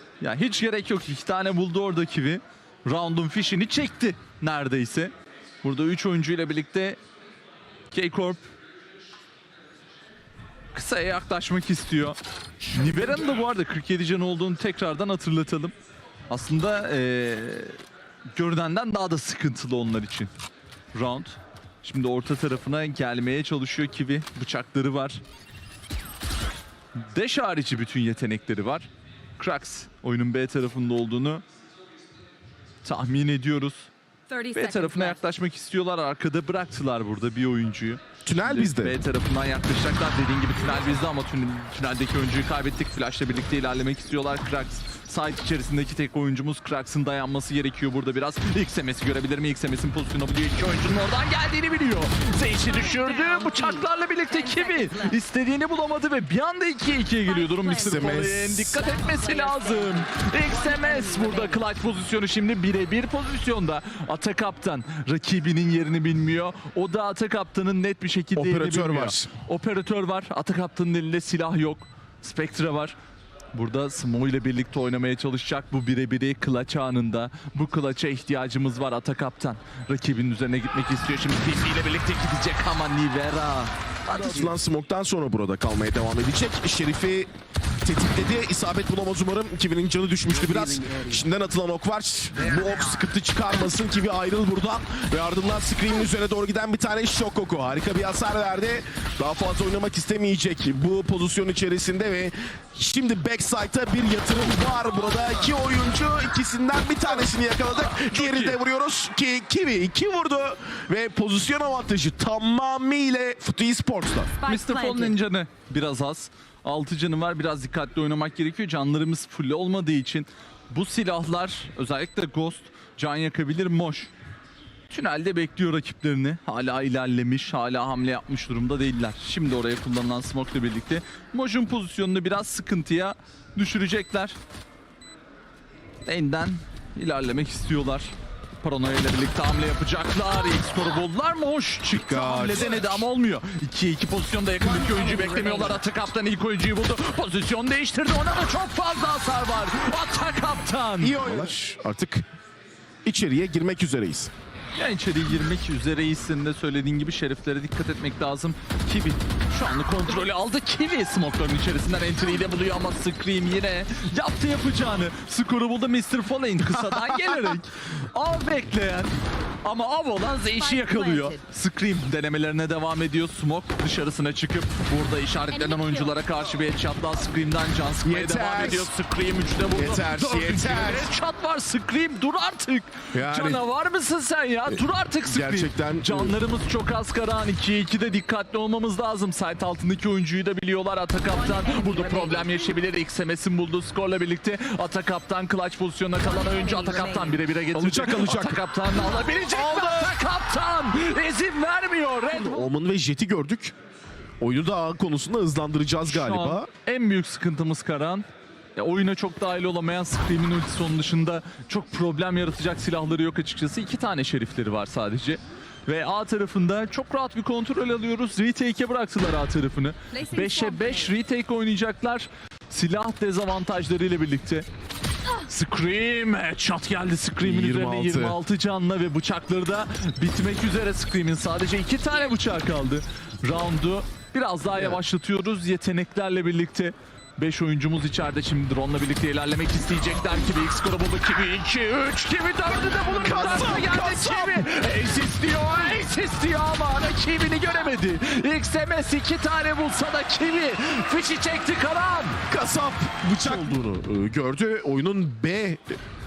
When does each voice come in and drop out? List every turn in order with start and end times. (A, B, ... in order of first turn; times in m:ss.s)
0:00.2-0:07.0 A
0:07.9-0:08.5 A
0:10.7-0:12.2 A
0:12.7-0:15.7 A
0:16.3-0:17.8 A
0:18.3-0:20.3 A
0:20.9-0:25.2 A
0:27.0-0:31.4 A
0:32.8-0:33.9 A
0:34.3-0:35.2 B
0:34.5-1:13.0 A
0:38.2-0:39.0 C
0:52.6-0:55.2 B
0:57.2-1:01.6 B
0:57.8-0:58.8 C
1:08.4-1:09.3 C
1:13.5-1:24.6 A
1:24.1-1:27.3 C
1:27.8-1:54.3 C
1:47.9-1:48.6 A
1:54.4-1:55.2 B
1:54.4-2:04.1 A
2:04.9-2:14.4 A
2:16.0-2:31.5 A
2:21.9-2:23.0 C
2:24.9-2:25.6 B
2:31.0-2:32.2 C
2:33.0-2:34.3 C
2:34.8-2:49.1 A
2:47.1-2:47.4 C
2:49.6-3:22.7 A
2:50.6-2:51.4 B
2:55.5-2:56.1 B
2:58.0-2:58.9 C
2:59.7-3:01.1 C
3:03.1-3:03.6 C
3:04.7-3:06.4 C
3:11.3-3:12.7 B
3:16.2-3:17.4 B
3:17.7-3:18.6 C
3:19.4-3:20.2 C
3:22.3-3:23.7 C
3:24.4-3:26.7 C
3:26.0-3:44.6 A
3:40.1-3:41.1 B
3:45.4-4:12.4 A
3:47.4-3:48.4 C
3:54.7-3:55.0 C
4:03.2-4:04.7 C
4:12.5-4:16.0 C
4:13.4-4:13.8 A